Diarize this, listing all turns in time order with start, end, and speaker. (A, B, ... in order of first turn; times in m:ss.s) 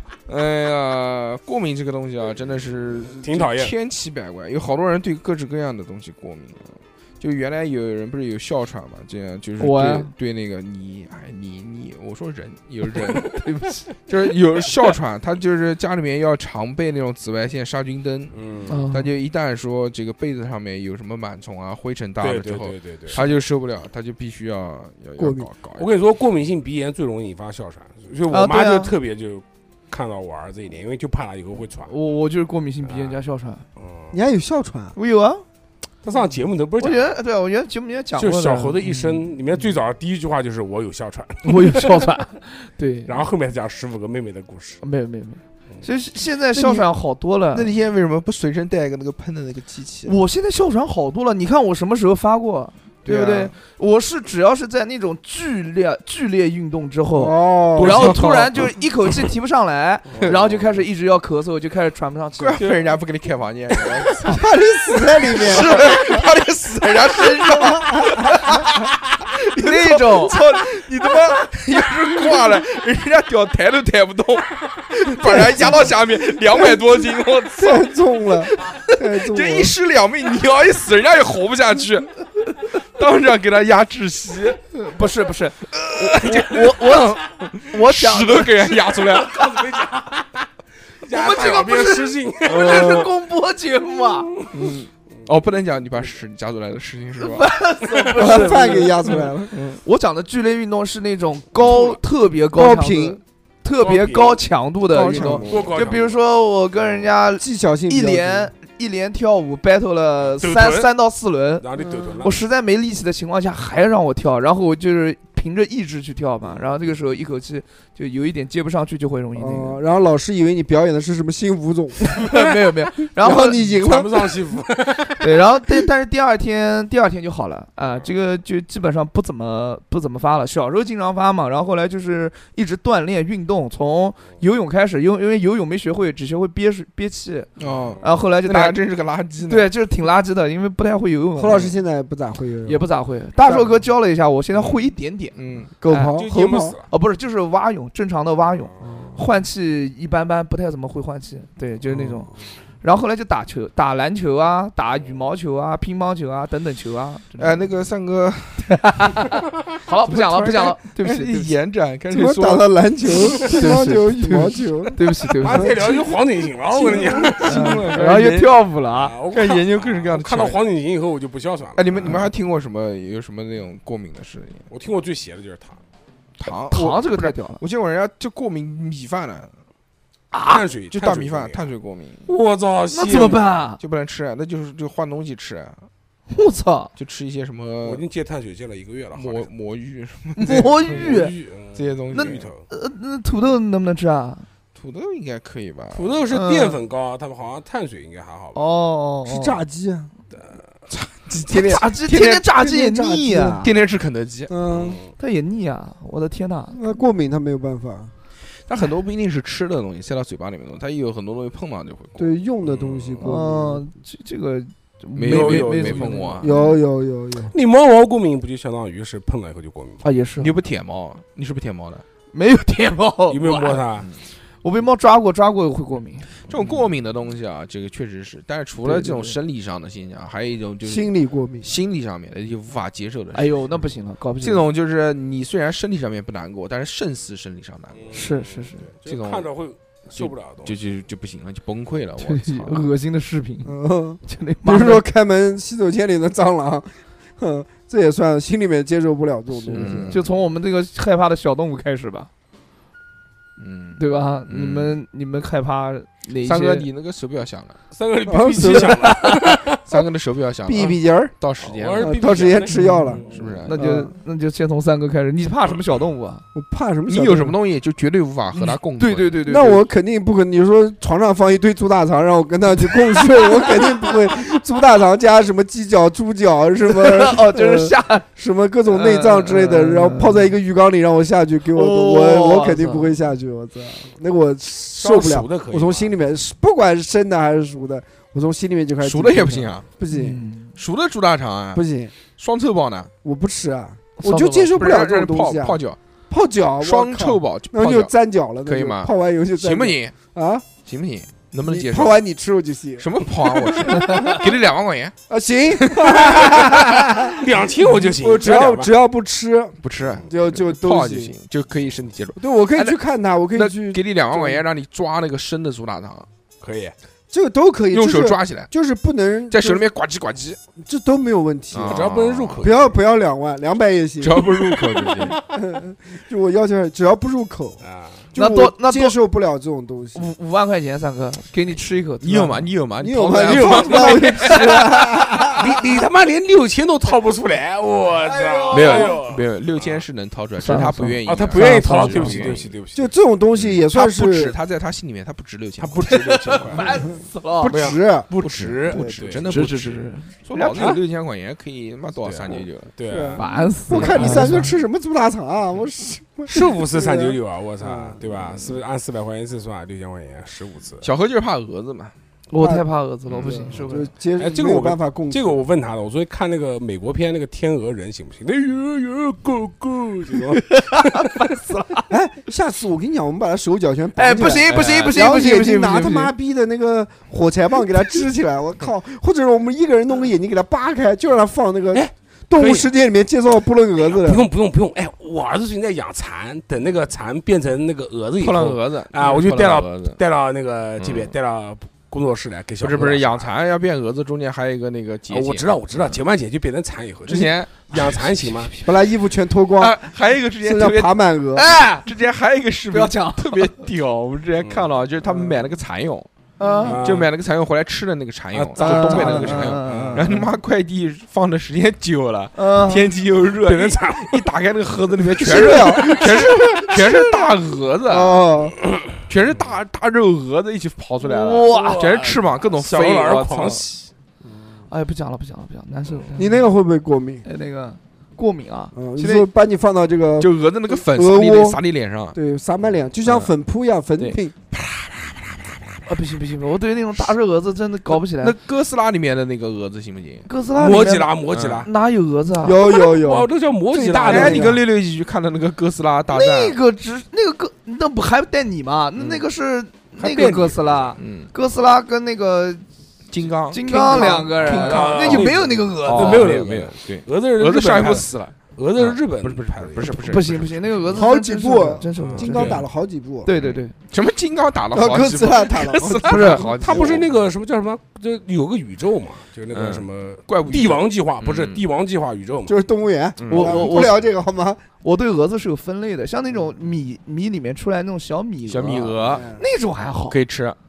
0:00.3-0:13.4 A
0:03.2-0:03.7 B
0:09.6-0:10.1 C
0:13.2-0:13.9 C
0:14.1-0:18.4 A
0:18.3-0:18.8 B
0:18.7-0:19.1 C
0:18.9-0:25.9 A
0:22.2-0:23.2 B
0:25.2-0:25.5 D
0:25.8-0:31.9 B
0:28.3-0:28.9 C
0:31.9-0:33.6 C
0:32.9-0:33.2 B
0:33.8-0:34.1 B
0:34.1-0:35.0 D
0:35.0-0:35.4 C
0:36.0-0:37.1 B
0:36.8-0:39.3 C
0:38.2-0:42.1 B
0:41.4-0:43.2 C
0:43.0-0:44.8 B
0:44.8-0:47.7 C
0:46.5-0:46.9 A
0:47.5-0:50.1 A
0:50.0-1:02.8 C
0:53.0-0:53.5 A
0:57.2-0:58.2 D
0:57.8-0:58.6 A
1:00.1-1:00.6 B
1:02.4-1:04.4 A
1:04.2-1:06.1 D
1:05.2-1:18.0 A
1:05.3-1:06.2 C
1:07.0-1:08.6 C
1:07.7-1:08.4 D
1:09.6-1:10.4 C
1:15.2-1:17.0 D
1:17.6-1:19.7 D
1:18.7-1:22.1 A
1:22.7-1:24.6 A
1:24.7-1:28.9 C
1:25.7-1:29.6 A
1:29.0-1:30.5 B
1:31.0-1:33.1 B
1:31.0-1:34.3 C
1:34.3-1:34.6 B
1:34.5-1:37.5 A
1:37.2-1:39.2 C
1:37.8-1:39.2 B
1:38.1-1:39.6 D
1:39.5-1:39.8 A
1:39.8-1:51.6 C
1:41.7-1:41.9 B
1:42.5-1:43.2 D
1:43.8-1:44.4 B
1:44.9-1:45.8 D
1:45.1-1:46.2 B
1:45.4-1:45.7 A
1:47.4-1:48.5 D
1:50.4-1:50.9 B
1:51.6-1:52.4 B
1:52.2-1:59.8 C
1:59.3-2:02.3 D
2:02.0-2:03.6 C
2:03.2-2:04.4 D
2:03.3-2:05.4 B
2:05.2-2:17.5 C
2:17.6-2:19.7 A
2:17.6-2:18.0 B
2:18.0-2:18.8 C
2:19.4-2:21.7 C
2:21.4-2:22.8 D
2:22.6-2:26.2 C
2:23.4-2:23.7 D
2:25.3-2:25.7 A
2:25.8-2:26.8 D
2:26.1-2:26.9 B
2:26.8-2:37.7 C
2:28.8-2:29.2 D
2:37.4-2:38.7 A
2:38.7-2:41.5 C
2:40.0-2:43.5 A
2:42.1-2:45.0 D
2:43.4-2:45.9 C
2:45.4-2:47.9 B
2:46.7-2:48.6 A
2:47.0-2:49.1 C
2:49.0-2:52.2 B
2:49.3-2:50.6 A
2:51.8-2:54.7 A
2:54.7-2:55.8 B
2:56.4-2:59.5 A
2:56.7-2:57.6 C
3:00.3-3:00.6 C
3:00.4-3:01.7 B
3:00.9-3:02.3 A
3:02.3-3:03.5 B
3:02.9-3:03.8 C
3:03.8-3:05.8 A
3:06.3-3:06.9 C
3:07.0-3:08.0 A
3:07.8-3:09.5 B
3:09.1-3:11.1 A
3:10.4-3:11.4 C
3:10.5-3:12.6 B
3:11.7-3:12.5 A
3:12.1-3:14.4 C
3:14.7-3:16.2 A
3:15.9-3:18.6 B
3:16.3-3:16.8 C
3:18.5-3:19.6 C
3:19.2-3:20.1 D
3:20.3-3:20.6 B
3:20.9-3:22.4 A
3:21.5-3:23.7 C
3:21.5-3:23.7 D
3:23.6-3:24.5 A
3:24.5-3:25.0 D
3:24.7-3:25.1 B
3:25.2-3:26.8 C
3:26.7-3:28.1 D
3:28.7-3:32.3 A
3:32.2-3:33.8 D
3:32.6-3:33.2 B
3:33.2-3:36.7 C
3:35.1-3:36.6 A
3:35.2-3:36.2 B
3:36.4-3:37.5 D
3:37.5-3:40.0 B
3:40.0-3:40.5 C
3:40.4-3:42.0 A
3:42.3-3:43.8 C
3:43.3-3:44.1 B
3:44.6-3:46.3 C
3:46.5-3:53.5 A
3:48.8-3:49.4 C
3:50.8-3:51.7 D
3:53.3-3:54.6 C
3:54.4-3:58.0 A
3:57.9-4:00.8 B
3:58.1-3:58.9 C
3:59.0-3:59.5 A
4:00.1-4:02.9 A
4:02.2-4:05.0 C
4:03.6-4:10.2 D
4:09.7-4:10.3 A
4:09.7-4:12.3 C
4:13.6-4:15.0 A
4:14.0-4:16.9 C
4:16.4-4:17.8 A
4:17.9-4:19.8 B
4:18.3-4:19.2 D
4:18.6-4:19.4 C
4:19.9-4:22.2 A
4:20.6-4:21.3 D
4:21.6-4:23.7 B
4:22.0-4:23.2 D
4:22.7-4:26.4 C
4:23.2-4:23.8 A
4:23.7-4:24.1 D
4:26.5-4:27.6 D
4:27.1-4:29.4 A
4:28.5-4:29.8 C
4:29.4-4:50.4 D
4:36.9-4:38.3 C
4:38.9-4:40.5 C
4:41.7-4:43.3 C
4:45.0-4:46.1 B
4:49.0-4:49.9 A
4:50.1-4:50.7 C
4:50.8-4:51.8 A
4:51.7-4:52.1 D
4:52.3-4:53.1 A
4:53.2-4:55.8 D
4:54.2-4:54.7 C
4:54.7-4:56.0 A
4:56.3-5:00.7 D
4:56.8-4:58.1 A
4:58.6-5:00.1 A
5:00.8-5:02.2 A
5:01.6-5:04.4 D
5:03.0-5:05.1 A
5:05.3-5:11.3 D
5:05.8-5:06.8 A
5:07.2-5:08.9 B
5:09.8-5:13.0 A
5:12.4-5:14.6 D
5:13.5-5:16.3 A
5:16.6-5:16.9 B
5:17.3-5:19.8 D
5:17.9-5:18.7 A
5:19.5-5:20.6 A
5:20.8-5:22.1 D
5:21.7-5:22.7 A
5:21.9-5:22.9 B
5:22.6-5:24.5 D
5:24.2-5:25.4 A
5:25.1-5:25.3 B
5:25.5-5:30.2 D
5:27.8-5:28.2 B
5:28.3-5:29.2 C
5:30.1-5:32.7 C
5:32.2-5:34.8 A
5:33.0-5:35.7 D
5:33.4-5:40.0 B
5:34.1-5:35.0 C
5:38.2-5:39.2 C
5:38.7-5:42.7 A
5:40.6-5:42.5 C
5:41.2-5:43.1 B
5:42.9-5:44.5 D
5:43.6-5:46.9 A
5:45.8-5:47.0 B
5:46.0-5:47.8 C
5:47.6-5:48.3 D
5:47.6-5:49.6 B
5:48.4-5:52.9 A
5:48.9-5:49.4 D
5:49.4-5:51.0 C
5:50.7-5:51.0 B
5:52.2-5:54.6 B
5:53.1-5:58.2 D
5:53.4-5:54.7 C
5:54.0-5:54.5 A
5:56.5-6:01.1 B
6:01.0-6:02.1 A
6:02.5-6:04.1 C
6:02.6-6:02.9 D
6:03.3-6:03.7 A
6:03.4-6:05.6 D
6:04.4-6:11.5 B
6:10.6-6:12.1 C
6:12.1-6:24.5 D
6:14.2-6:16.3 C
6:14.7-6:15.2 A
6:21.9-6:22.9 B
6:24.0-6:33.5 B
6:28.4-6:30.2 A
6:31.0-6:31.3 A
6:32.8-6:36.2 A
6:35.3-6:38.7 B
6:37.3-6:38.3 A
6:38.8-6:40.0 D
6:39.8-6:41.2 A
6:40.6-6:41.7 D
6:41.5-6:42.1 C
6:41.9-6:46.3 A
6:42.9-6:43.8 C
6:45.3-6:45.6 D
6:46.6-6:47.0 C
6:46.8-6:47.3 B
6:46.9-6:58.4 A
6:48.5-6:50.3 B
6:48.8-6:50.5 C
6:48.8-6:49.6 D
6:52.6-6:53.1 C
6:53.6-6:54.5 B
6:55.4-6:57.2 D
6:55.6-6:56.2 B
6:58.1-6:58.8 D
6:59.3-7:03.8 A
7:01.2-7:02.1 C
7:01.7-7:04.1 B
7:04.9-7:06.7 C
7:06.4-7:07.4 D
7:07.4-7:09.5 C
7:08.9-7:11.8 D
7:10.4-7:12.4 A
7:12.3-7:14.5 D
7:13.2-7:13.5 A
7:14.2-7:16.1 A
7:16.0-7:18.5 C
7:18.1-7:20.5 A
7:20.5-7:22.8 C
7:20.7-7:21.9 B
7:21.5-7:21.9 A
7:22.6-7:24.8 D
7:22.8-7:24.8 B
7:24.2-7:26.8 A
7:26.3-7:32.8 C
7:29.2-7:29.4 A
7:30.2-7:31.1 B
7:31.2-7:31.5 A
7:33.3-7:40.9 A
7:33.7-7:36.6 C
7:33.9-7:34.7 D
7:34.6-7:40.3 B
7:40.0-7:42.9 C
7:41.1-7:43.5 D
7:42.2-7:42.8 B
7:42.4-7:42.8 A
7:43.4-7:43.9 C
7:43.5-7:47.3 A
7:44.9-7:47.2 D
7:46.3-7:46.6 C
7:46.4-7:52.8 B
7:49.7-7:51.8 A
7:52.7-7:54.8 D
7:53.4-7:54.2 A
7:53.5-7:54.2 C
7:55.0-8:00.4 C
7:58.6-7:59.4 A
7:59.2-7:59.6 D
8:00.3-8:00.8 A